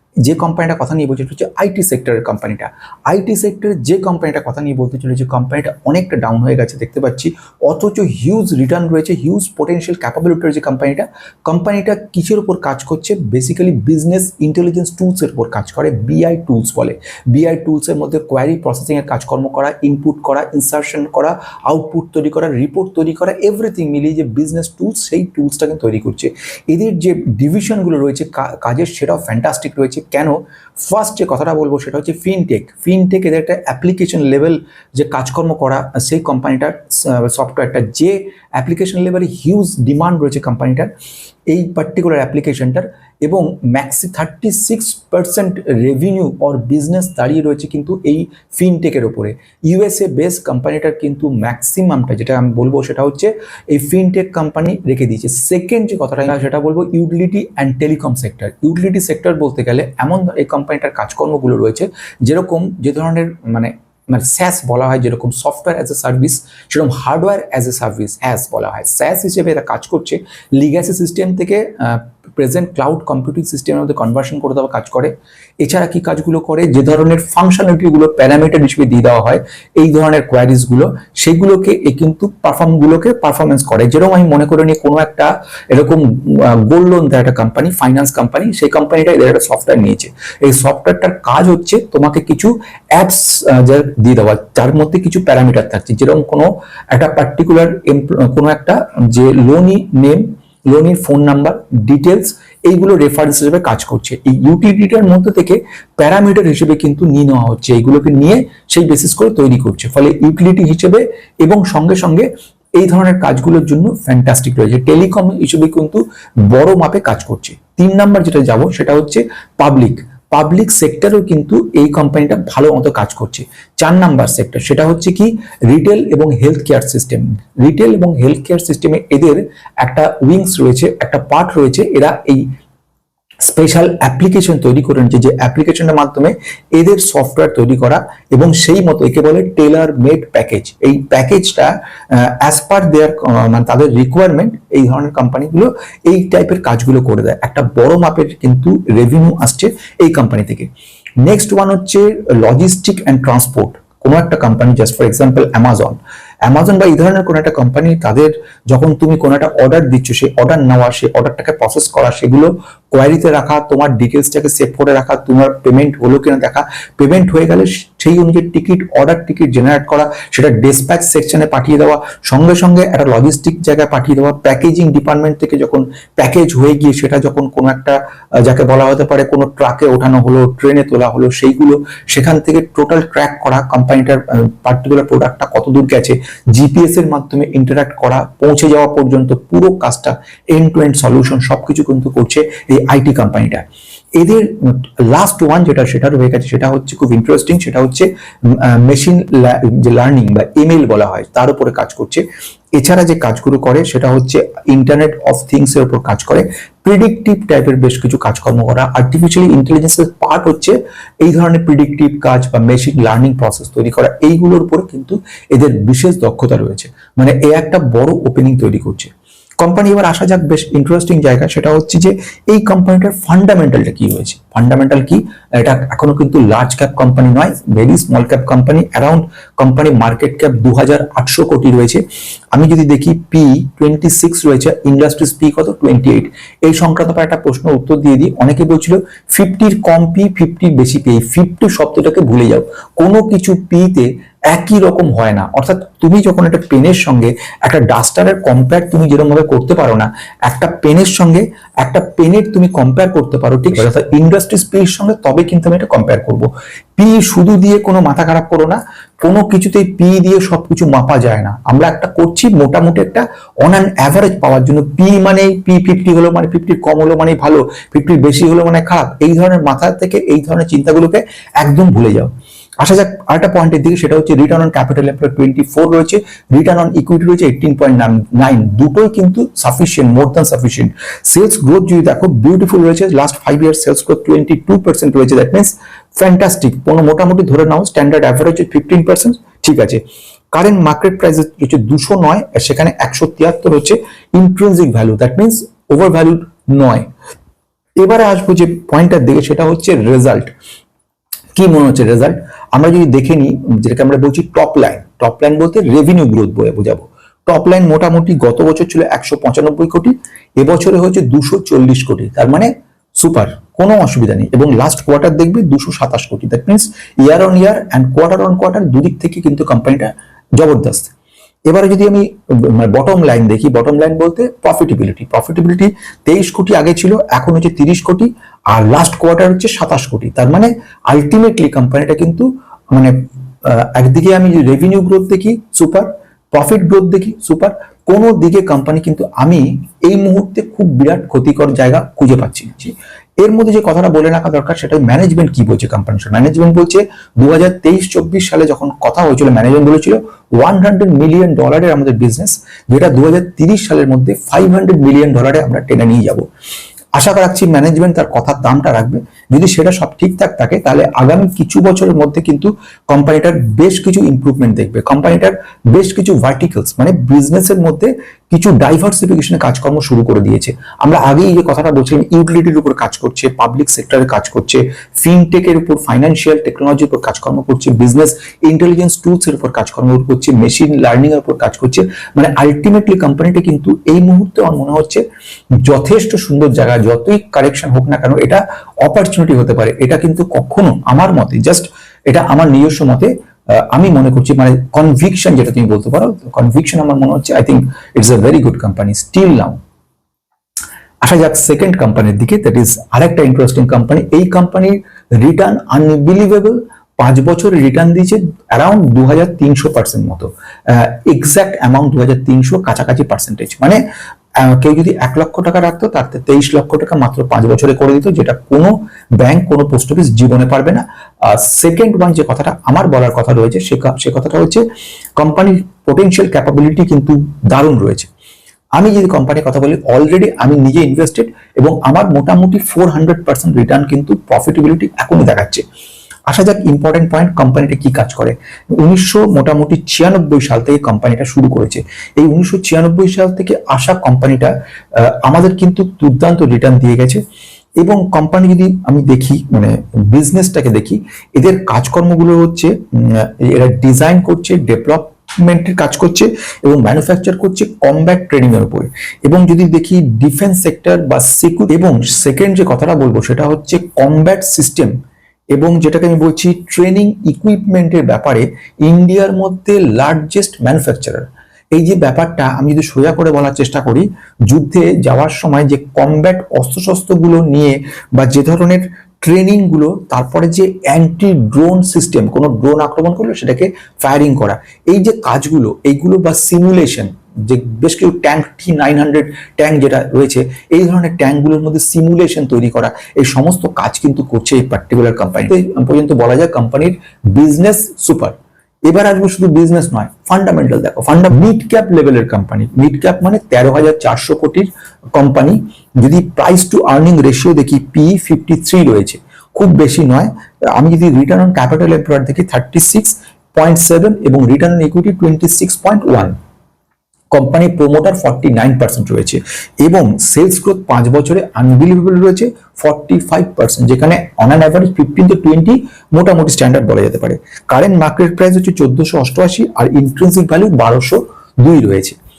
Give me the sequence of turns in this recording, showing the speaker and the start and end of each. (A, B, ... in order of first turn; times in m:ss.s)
0:00.2-0:40.9 A
0:41.5-1:52.3 A
1:52.8-2:12.4 A
2:13.5-2:30.7 A
2:31.2-3:13.6 A
3:14.2-3:22.2 A
3:22.8-3:39.1 A
3:39.6-4:50.0 A
4:50.5-4:57.1 A
4:58.0-5:00.5 A
5:01.6-5:21.1 A
5:21.7-5:56.5 A
5:57.2-6:25.2 A
6:25.8-6:39.8 A
6:41.2-6:54.0 A
6:54.6-7:04.8 A
7:05.4-7:08.3 A
7:09.0-7:15.8 A
7:16.5-7:27.4 A
7:28.0-7:45.1 A
7:45.7-8:18.6 A
8:19.1-8:36.6 A
8:37.5-8:52.4 A